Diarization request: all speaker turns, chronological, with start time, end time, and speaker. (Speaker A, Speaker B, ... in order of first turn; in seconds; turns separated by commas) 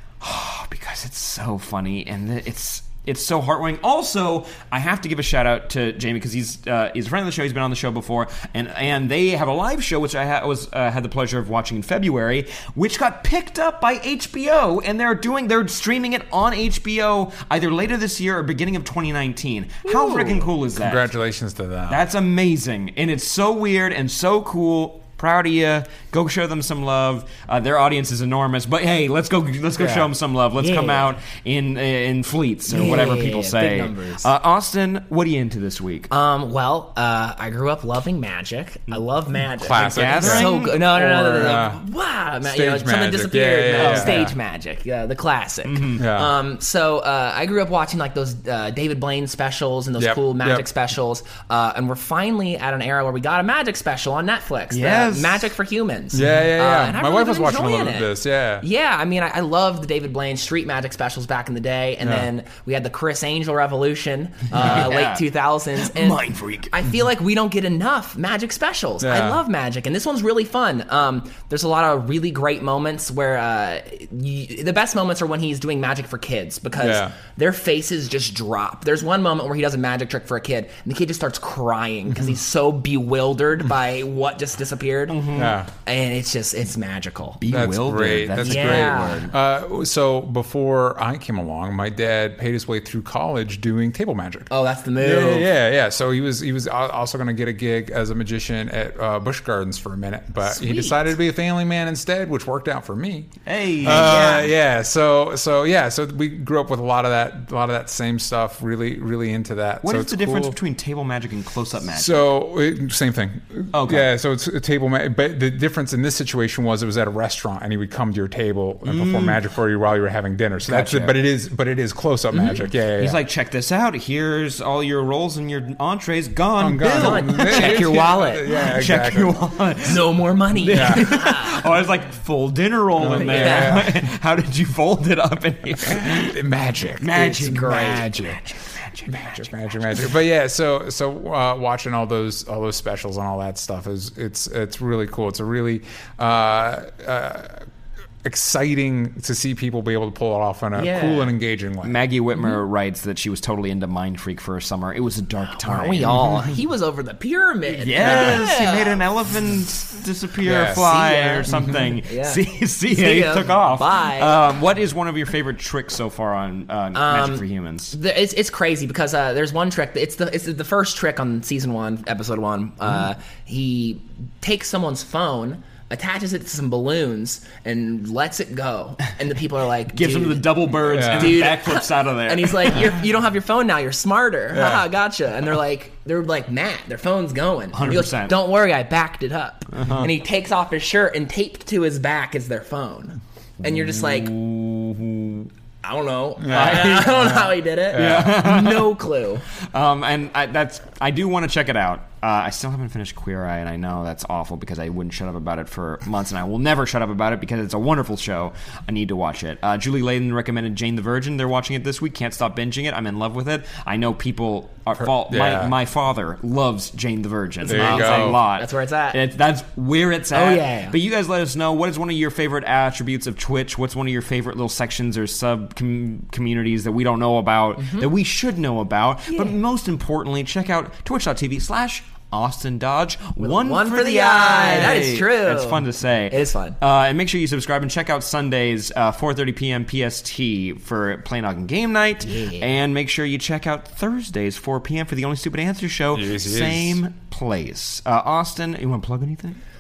Speaker A: 0.2-21.1, Speaker B: 19.9-22.0, Speaker A: 21.9-36.1, Speaker B: 29.8-30.1, Speaker C: 30.6-31.1, Speaker C: 32.7-34.3, Speaker C: 36.1-58.1, Speaker B: 39.6-40.5, Speaker A: 39.8-41.6, Speaker B: 41.4-41.8, Speaker B: 42.4-44.3, Speaker A: 43.7-44.3, Speaker A: 45.6-46.0, Speaker B: 46.0-46.3, Speaker B: 50.0-50.6, Speaker A: 54.7-55.5, Speaker B: 56.1-58.6, Speaker C: 58.6-85.3, Speaker B: 62.0-62.3, Speaker A: 64.5-65.2, Speaker A: 65.8-66.7, Speaker B: 69.0-69.4, Speaker B: 76.8-77.1, Speaker B: 82.1-82.4, Speaker A: 85.1-85.6, Speaker B: 85.3-85.7, Speaker C: 85.8-87.4, Speaker A: 87.4-89.3, Speaker B: 87.5-103.3, Speaker C: 88.4-89.3, Speaker C: 94.5-95.5, Speaker C: 100.5-101.0, Speaker A: 103.5-104.4, Speaker B: 103.8-110.6, Speaker C: 103.8-104.5, Speaker A: 109.8-112.2, Speaker B: 111.9-123.2, Speaker A: 113.7-114.1, Speaker A: 118.8-119.4, Speaker A: 120.7-121.2, Speaker A: 122.3-136.3, Speaker B: 126.6-129.4, Speaker C: 126.9-128.5, Speaker C: 129.8-131.6, Speaker B: 130.7-131.1, Speaker B: 133.0-134.0, Speaker C: 133.2-133.9, Speaker B: 135.8-138.4, Speaker A: 137.0-140.0, Speaker C: 137.6-138.3, Speaker B: 139.1-147.6, Speaker B: 148.2-152.0, Speaker C: 150.8-151.3, Speaker A: 151.8-156.4, Speaker C: 155.6-159.0, Speaker A: 157.8-167.9, Speaker B: 158.0-158.4, Speaker B: 160.4-160.9, Speaker C: 160.8-164.4, Speaker B: 161.5-161.9, Speaker C: 166.9-194.3, Speaker A: 179.9-182.9, Speaker B: 180.9-181.4, Speaker B: 184.5-184.8, Speaker A: 187.7-188.4, Speaker A: 189.8-190.1, Speaker A: 193.6-195.5, Speaker C: 195.8-199.4, Speaker B: 196.4-198.5, Speaker A: 196.5-197.3, Speaker A: 197.9-199.0, Speaker A: 199.6-249.6, Speaker B: 215.0-215.8, Speaker B: 217.6-218.4, Speaker C: 217.7-219.2, Speaker C: 220.3-221.0, Speaker C: 227.8-228.1, Speaker C: 229.3-229.6, Speaker C: 233.4-236.8, Speaker C: 242.2-242.7, Speaker B: 246.1-247.0